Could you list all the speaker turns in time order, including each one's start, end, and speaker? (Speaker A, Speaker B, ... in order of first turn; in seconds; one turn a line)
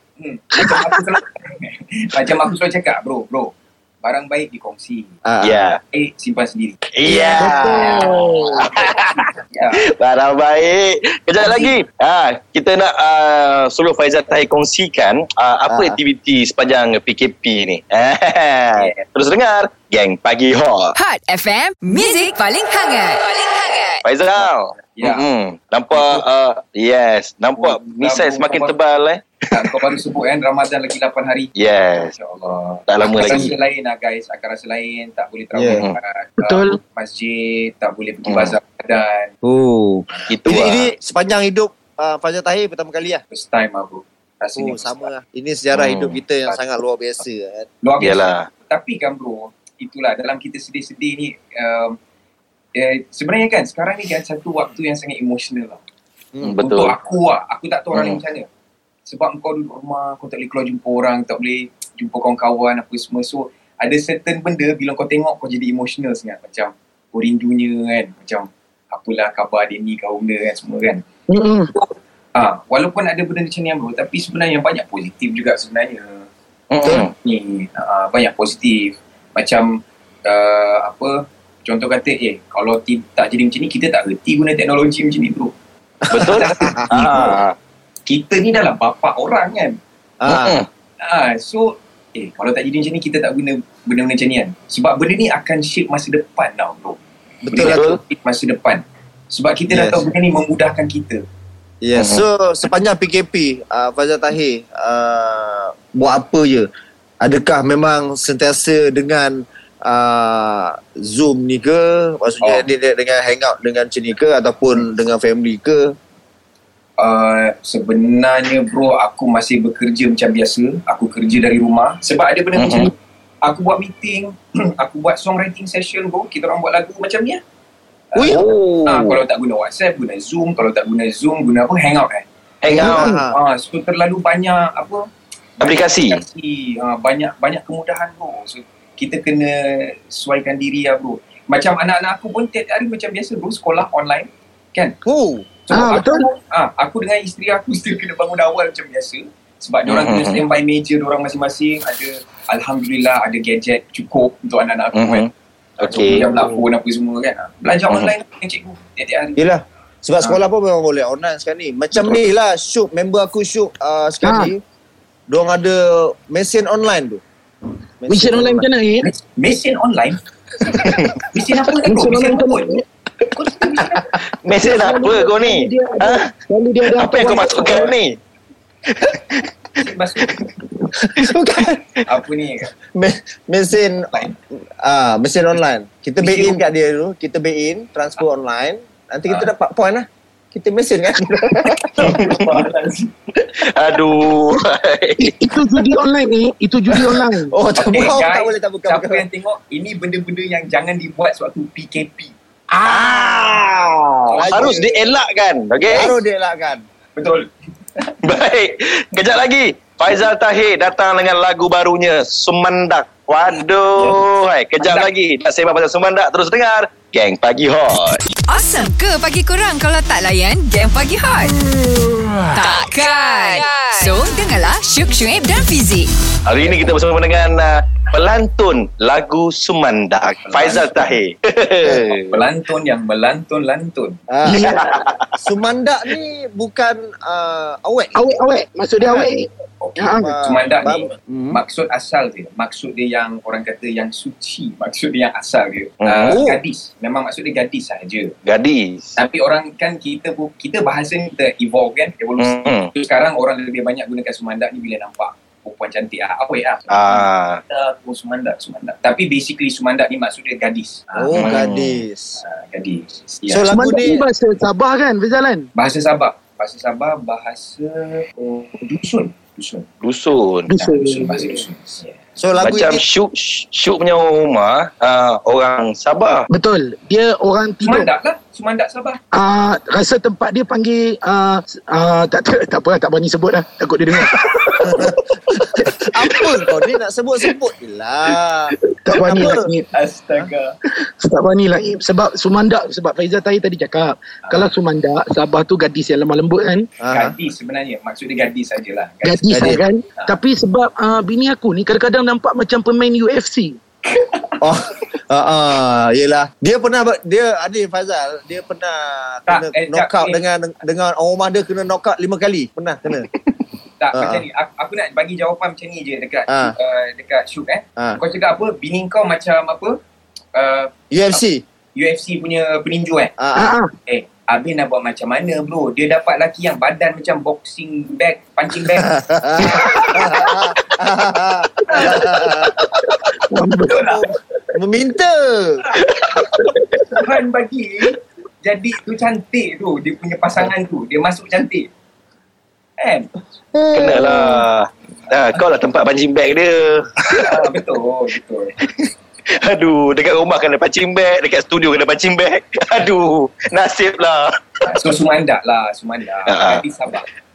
Speaker A: 0.2-5.1
Speaker B: 5.2-5.7
Speaker C: 5.4-5.8
Speaker A: 5.9-7.7
Speaker C: 6.9-20.9
Speaker D: 7.1-8.6
Speaker B: 7.4-8.3
Speaker A: 9.5-9.9
Speaker A: 11.4-11.7
Speaker B: 15.7-16.0
Speaker A: 18.8-19.0
Speaker E: 20.9-24.0
Speaker C: 24.1-29.8
Speaker A: 24.4-25.3
Speaker A: 25.9-26.3
Speaker A: 27.6-28.8
Speaker A: 29.5-31.5
Speaker C: 31.6-32.1
Speaker A: 32.1-39.3
Speaker C: 32.9-33.5
Speaker B: 33.3-33.5
Speaker B: 35.5-35.9
Speaker D: 36.4-36.8
Speaker C: 38.3-38.6
Speaker B: 39.4-43.2
Speaker C: 40.3-40.9
Speaker A: 43.3-45.1
Speaker B: 44.6-47.7
Speaker C: 45.7-46.2
Speaker A: 47.8-52.0
Speaker C: 48.0-48.5
Speaker A: 52.8-55.8
Speaker C: 56.4-57.0
Speaker A: 56.6-58.5
Speaker C: 57.9-58.2
Speaker A: 59.1-71.0
Speaker D: 71.3-71.7
Speaker A: 71.7-76.3
Speaker C: 76.7-77.1
Speaker A: 76.9-85.5
Speaker A: 86.1-87.4
Speaker C: 86.1-87.5
Speaker B: 86.1-87.3
Speaker A: 88.1-89.8
Speaker B: 90.2-90.6
Speaker C: 90.3-90.7
Speaker A: 91.0-101.2
Speaker B: 97.4-97.9
Speaker C: 97.6-98.0
Speaker B: 99.7-100.0
Speaker B: 101.8-106.7
Speaker C: 102.0-102.2
Speaker B: 107.2-116.0
Speaker A: 117.0-127.4
Speaker C: 122.6-122.9
Speaker A: 128.1-132.2
Speaker B: 128.2-128.5
Speaker C: 128.2-129.2
Speaker C: 132.6-133.2
Speaker B: 132.7-133.4
Speaker A: 132.8-135.1
Speaker D: 132.9-133.2
Speaker A: 135.6-145.0
Speaker C: 135.6-136.2
Speaker B: 145.1-145.5
Speaker A: 145.7-155.3
Speaker D: 145.7-146.2
Speaker C: 149.9-150.4
Speaker C: 154.9-156.3
Speaker A: 155.8-159.4
Speaker B: 155.9-156.6
Speaker B: 159.4-164.6
Speaker D: 164.2-164.5
Speaker B: 165.3-167.2
Speaker B: 168.0-168.7
Speaker D: 168.1-169.1
Speaker A: 169.0-170.2
Speaker A: 171.2-172.8
Speaker D: 171.8-172.8
Speaker A: 173.3-174.1
Speaker C: 174.4-176.3
Speaker D: 174.6-177.9
Speaker C: 176.9-178.2
Speaker A: 177.6-177.9
Speaker C: 178.9-179.5
Speaker A: 179.8-180.5
Speaker B: 181.0-181.8
Speaker A: 182.1-182.7
Speaker B: 182.9-192.2
Speaker A: 186.2-186.6
Speaker A: 191.8-193.1
Speaker C: 192.0-192.5
Speaker C: 193.6-195.4
Speaker D: 195.2-197.5
Speaker B: 197.3-199.2
Speaker A: 197.8-202.3
Speaker C: 202.8-203.8
Speaker B: 202.9-204.9
Speaker A: 204.3-204.9
Speaker C: 204.5-206.1
Speaker B: 205.8-206.8
Speaker A: 207.2-207.5
Speaker C: 208.2-218.2
Speaker A: 214.8-215.1
Speaker E: 218.5-221.6
Speaker E: 222.5-226.1
Speaker C: 226.5-232.4
Speaker A: 230.4-231.2
Speaker A: 231.9-234.2
Speaker B: 234.3-238.4
Speaker D: 234.4-234.8
Speaker C: 234.6-235.4
Speaker D: 238.2-240.3
Speaker B: 239.0-239.3
Speaker A: 239.8-248.3
Speaker B: 240.2-241.6
Speaker C: 246.0-246.4
Speaker B: 246.3-246.6
Speaker C: 248.5-249.2
Speaker A: 249.2-261.6
Speaker C: 252.4-252.9
Speaker C: 256.9-257.6
Speaker B: 261.1-262.4
Speaker C: 261.4-262.0
Speaker A: 262.4-263.7
Speaker B: 263.5-264.2
Speaker D: 263.7-265.7
Speaker A: 265.8-269.9
Speaker C: 270.0-270.7
Speaker D: 270.7-271.6
Speaker A: 270.7-272.2
Speaker B: 272.4-273.0
Speaker C: 272.6-276.5
Speaker D: 276.5-278.1
Speaker A: 277.8-279.2
Speaker D: 279.3-286.1
Speaker B: 284.8-289.7
Speaker D: 289.0-289.9
Speaker A: 289.9-290.8
Speaker D: 291.2-296.9
Speaker A: 294.4-294.7
Speaker B: 297.0-297.3
Speaker A: 297.1-300.4
Speaker D: 299.2-303.8
Speaker B: 299.5-299.8
Speaker B: 304.6-313.3
Speaker A: 309.5-310.4
Speaker A: 314.0-320.0
Speaker B: 314.1-314.4
Speaker B: 316.5-316.8
Speaker A: 320.5-321.4
Speaker B: 321.1-321.6
Speaker A: 321.9-323.3
Speaker B: 323.4-323.8
Speaker D: 323.6-323.9
Speaker A: 324.1-330.6
Speaker B: 329.0-332.8
Speaker A: 331.9-333.1
Speaker D: 332.0-332.2
Speaker D: 333.5-334.0
Speaker A: 333.9-334.3
Speaker B: 333.9-335.8
Speaker A: 335.9-336.5
Speaker A: 337.1-341.9
Speaker A: 343.0-343.3
Speaker B: 343.7-344.7
Speaker C: 343.9-347.5
Speaker A: 347.3-348.8
Speaker C: 349.5-354.5
Speaker A: 354.9-357.3
Speaker C: 356.5-356.8